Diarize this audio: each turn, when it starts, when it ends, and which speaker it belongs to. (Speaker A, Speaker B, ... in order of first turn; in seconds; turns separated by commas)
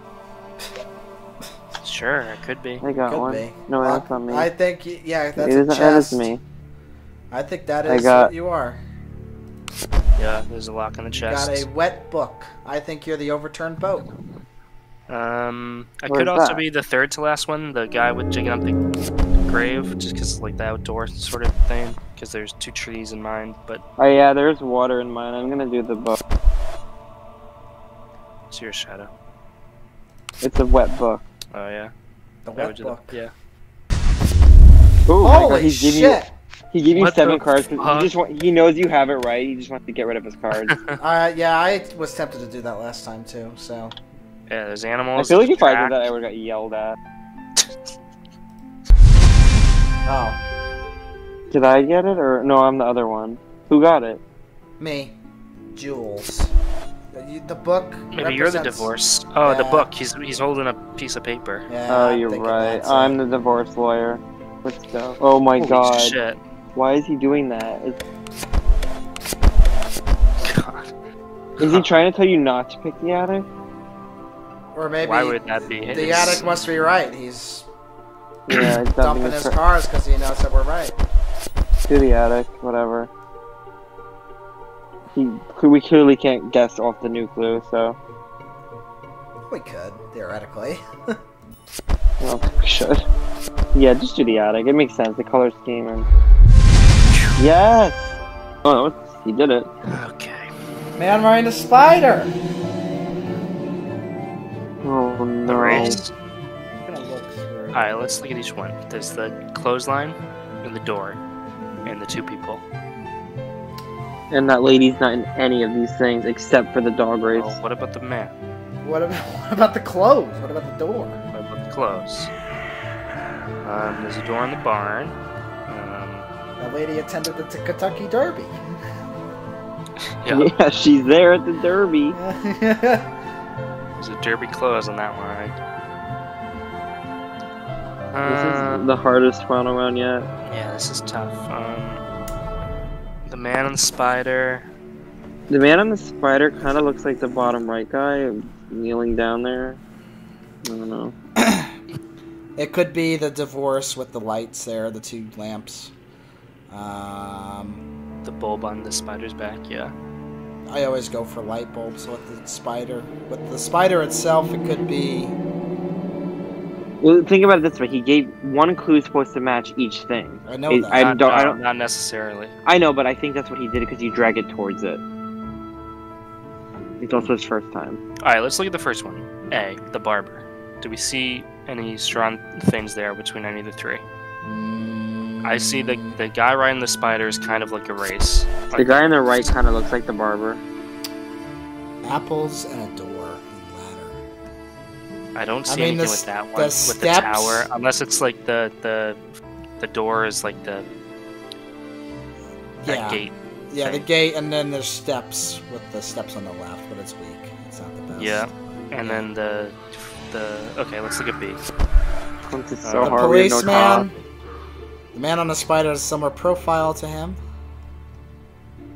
Speaker A: 1.8-2.8, Speaker B: 2.8-4.5, Speaker C: 3.0-6.3, Speaker B: 5.4-6.4, Speaker C: 7.3-8.8, Speaker B: 7.9-8.3, Speaker A: 10.2-11.7, Speaker C: 11.1-14.1, Speaker A: 15.1-18.8, Speaker B: 16.1-16.6, Speaker A: 19.5-23.8, Speaker B: 24.0-26.2, Speaker A: 28.5-29.1, Speaker B: 30.4-31.2, Speaker A: 31.5-31.9, Speaker C: 32.5-33.2, Speaker A: 32.6-33.3, Speaker B: 35.1-40.8, Speaker C: 35.2-36.3, Speaker A: 36.9-38.1, Speaker C: 41.0-43.9, Speaker A: 44.5-46.1, Speaker B: 45.2-47.0, Speaker C: 50.1-50.4, Speaker B: 51.5-54.2, Speaker C: 54.8-55.2, Speaker C: 55.7-56.5, Speaker C: 57.1-58.9, Speaker A: 58.1-61.7, Speaker C: 59.4-59.9, Speaker C: 61.7-63.2, Speaker B: 61.9-66.2, Speaker A: 65.6-66.4, Speaker B: 66.7-68.0, Speaker A: 70.4-70.9, Speaker A: 71.6-71.9, Speaker B: 71.6-73.5, Speaker C: 74.7-77.7, Speaker A: 75.0-76.5, Speaker B: 78.5-79.6, Speaker A: 78.5-78.8, Speaker C: 79.0-81.0, Speaker B: 81.9-83.1, Speaker B: 85.1-88.0, Speaker C: 89.5-90.8, Speaker B: 92.2-93.0, Speaker B: 93.7-96.1, Speaker B: 97.4-99.7, Speaker A: 99.9-100.5, Speaker C: 101.0-102.4, Speaker B: 104.8-106.0, Speaker A: 105.5-106.1, Speaker C: 106.8-107.9, Speaker A: 107.7-111.2, Speaker A: 111.8-112.6, Speaker B: 114.3-117.6, Speaker A: 117.3-118.3, Speaker C: 118.8-121.2, Speaker A: 121.3-122.3, Speaker A: 123.6-125.2, Speaker A: 125.7-126.3, Speaker C: 126.6-128.6, Speaker A: 130.2-130.5, Speaker B: 130.3-132.2, Speaker C: 132.2-133.1, Speaker A: 134.0-135.6, Speaker A: 138.1-138.8, Speaker B: 138.3-140.3, Speaker A: 140.4-142.0, Speaker A: 143.3-144.7, Speaker B: 145.5-149.8, Speaker B: 150.6-151.1, Speaker C: 151.4-151.7, Speaker C: 152.6-155.9, Speaker C: 156.7-157.8, Speaker A: 158.2-159.9, Speaker C: 160.7-165.4, Speaker B: 167.0-171.6, Speaker C: 170.5-171.1, Speaker A: 170.9-172.5, Speaker B: 172.7-175.0, Speaker B: 177.0-178.0, Speaker A: 178.2-184.0, Speaker C: 184.4-186.2, Speaker A: 185.4-189.5, Speaker B: 188.7-190.6, Speaker C: 192.0-194.2, Speaker A: 195.3-199.2, Speaker C: 195.7-197.7, Speaker A: 199.8-200.9, Speaker C: 202.8-209.3, Speaker A: 202.8-204.1, Speaker A: 208.1-211.6, Speaker B: 212.4-214.1, Speaker A: 212.8-213.3, Speaker C: 213.0-214.2, Speaker C: 215.1-217.4